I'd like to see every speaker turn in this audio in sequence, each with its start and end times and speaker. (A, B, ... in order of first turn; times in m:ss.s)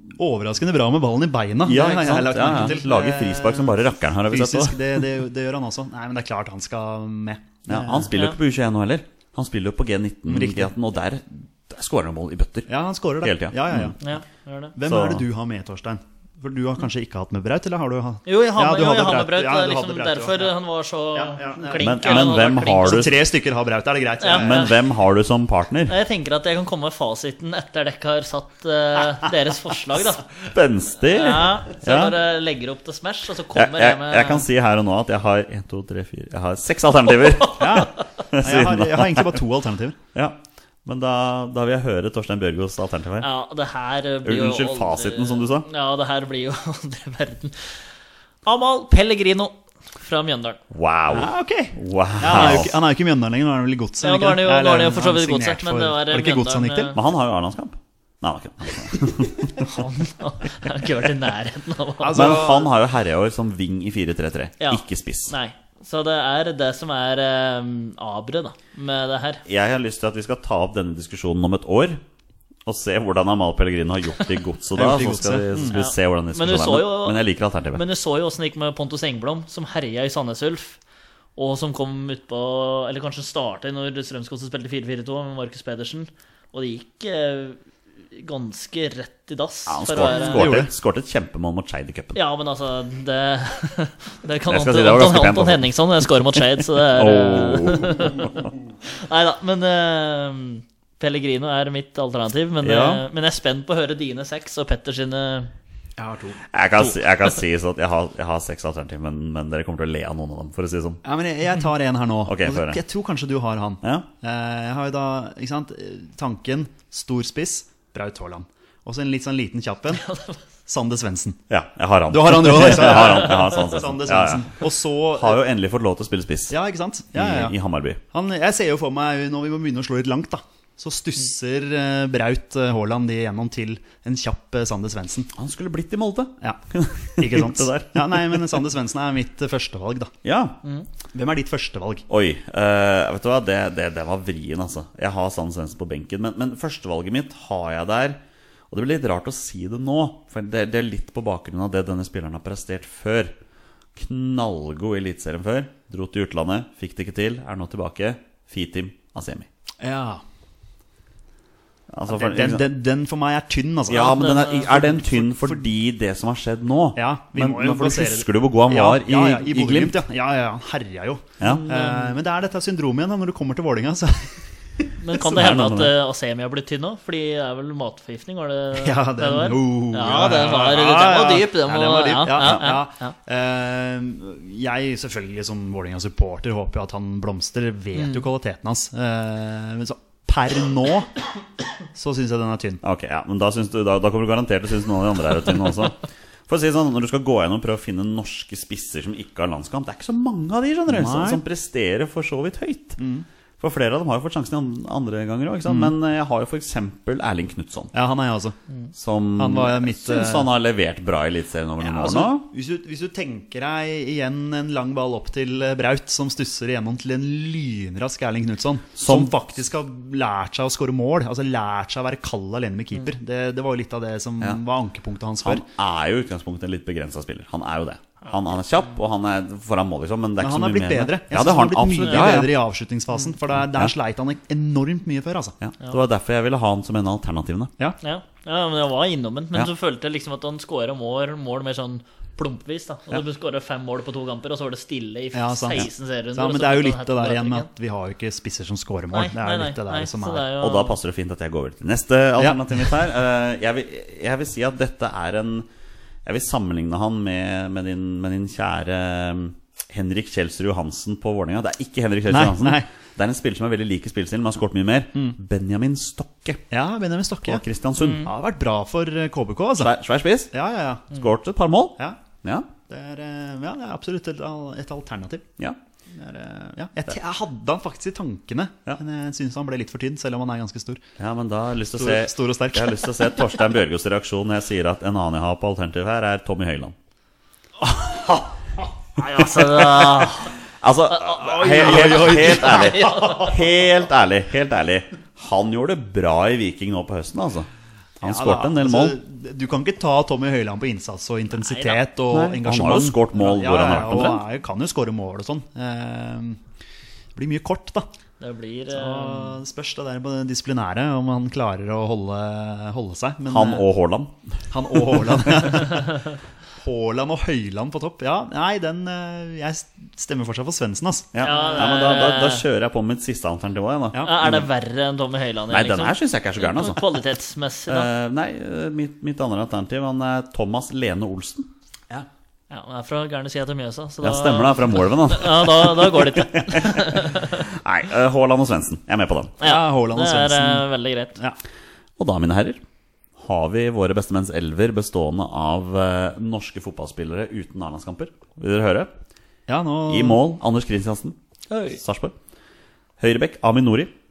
0:00.2-0:08.1 A
0:01.6-0:05.1 B
0:07.7-0:13.9 B
0:10.3-0:10.7 A
0:12.7-0:14.1 A
0:14.0-0:14.7 C
0:14.8-0:20.6 A
0:14.8-0:15.2 B
0:18.2-0:23.1 C
0:21.1-0:24.7 A
0:21.8-0:23.2 B
0:24.2-0:24.8 C
0:24.3-0:26.0 B
0:25.9-0:30.3 C
0:30.3-0:32.2 B
0:31.0-0:34.4 C
0:33.5-0:39.4 B
0:37.5-0:40.0 A
0:40.1-0:43.3 B
0:43.2-0:47.8 C
0:44.2-0:45.7 B
0:48.4-0:50.6 C
0:50.7-0:52.8 B
0:51.1-0:57.0 A
0:54.0-0:57.0 C
0:56.9-0:59.8 B
0:59.6-1:02.3 C
1:02.0-1:02.7 A
1:02.1-1:05.3 B
1:04.6-1:09.4 C
1:09.4-1:12.0 B
1:12.6-1:17.8 B
1:14.7-1:15.8 A
1:15.7-1:20.8 C
1:21.4-1:27.6 C
1:28.1-1:30.6 C
1:29.7-1:32.2 B
1:30.0-1:30.7 A
1:32.1-1:45.5 C
1:34.5-1:38.5 B
1:42.6-1:43.0 B
1:46.0-1:46.4 A
1:46.5-1:51.0 B
1:51.0-2:00.0 A
1:52.2-1:52.8 B
1:59.9-2:00.4 C
2:00.7-2:01.4 A
2:01.5-2:06.6 B
2:02.1-2:05.4 A
2:06.5-2:07.6 A
2:07.1-2:08.0 B
2:08.1-2:15.3 A
2:15.3-2:18.6 B
2:17.1-2:20.1 A
2:20.2-2:20.6 B
2:21.1-2:22.0 A
2:22.1-2:33.3 B
2:33.9-2:39.5 B
2:39.8-2:40.2 A
2:41.9-2:42.7 B
2:42.1-2:45.6 A
2:43.9-2:50.0 B
2:44.0-2:44.8 C
2:46.9-2:55.0 A
2:51.4-2:51.7 B
2:51.4-2:52.1 C
2:55.0-3:03.1 C
2:55.1-2:55.9 B
2:58.7-3:11.2 A
3:07.9-3:08.3 C
3:11.9-3:12.8 A
3:12.8-3:23.0 B
3:20.9-3:21.4 A
3:23.0-3:23.2 A
3:23.6-3:27.9 B
3:25.6-3:25.9 A
3:27.9-3:28.6 A
3:28.9-3:32.5 B
3:29.4-3:30.5 A
3:31.8-3:45.6 A
3:39.0-3:39.3 B
3:45.4-3:52.6 B
3:50.4-3:55.6 A
3:52.1-3:52.4 C
3:55.6-3:57.7 B
3:58.0-4:07.7 C
4:05.3-4:10.5 A
4:09.1-4:11.0 C
4:10.6-4:15.7 B
4:12.4-4:12.7 A
4:16.2-4:26.6 B
4:22.3-4:22.9 A
4:26.7-4:27.6 A
4:27.4-4:28.3 B
4:28.0-4:28.3 C
4:28.2-4:29.9 A
4:29.8-4:30.5 B
4:30.5-4:31.1 A
4:31.1-4:32.7 B
4:32.9-4:35.5 A
4:36.1-4:41.0 A
4:41.2-4:46.9 B
4:41.9-4:43.3 A
4:48.0-4:48.5 A
4:49.2-4:50.5 C
4:49.4-4:57.7 B
4:51.2-4:53.5 A
4:51.7-4:53.5 C
4:58.2-4:59.2 B
4:58.2-5:06.6 A
5:01.6-5:02.0 C
5:02.3-5:04.4 B
5:07.3-5:08.1 A
5:08.4-5:09.6 C
5:08.9-5:13.9 A
5:13.5-5:14.6 B
5:14.7-5:21.7 A
5:21.3-5:24.7 B
5:21.4-5:22.6 C
5:24.1-5:24.4 A
5:24.2-5:28.1 C
5:25.7-5:27.2 B
5:27.9-5:31.7 B
5:32.7-5:37.6 C
5:34.2-5:39.6 B
5:39.6-5:41.4 C
5:39.6-5:41.6 A
5:42.2-5:42.8 B
5:43.4-5:49.1 B
5:49.7-5:50.4 A
5:50.1-5:51.4 B
5:51.7-5:52.0 C
5:51.9-5:52.3 B
5:53.2-5:54.1 B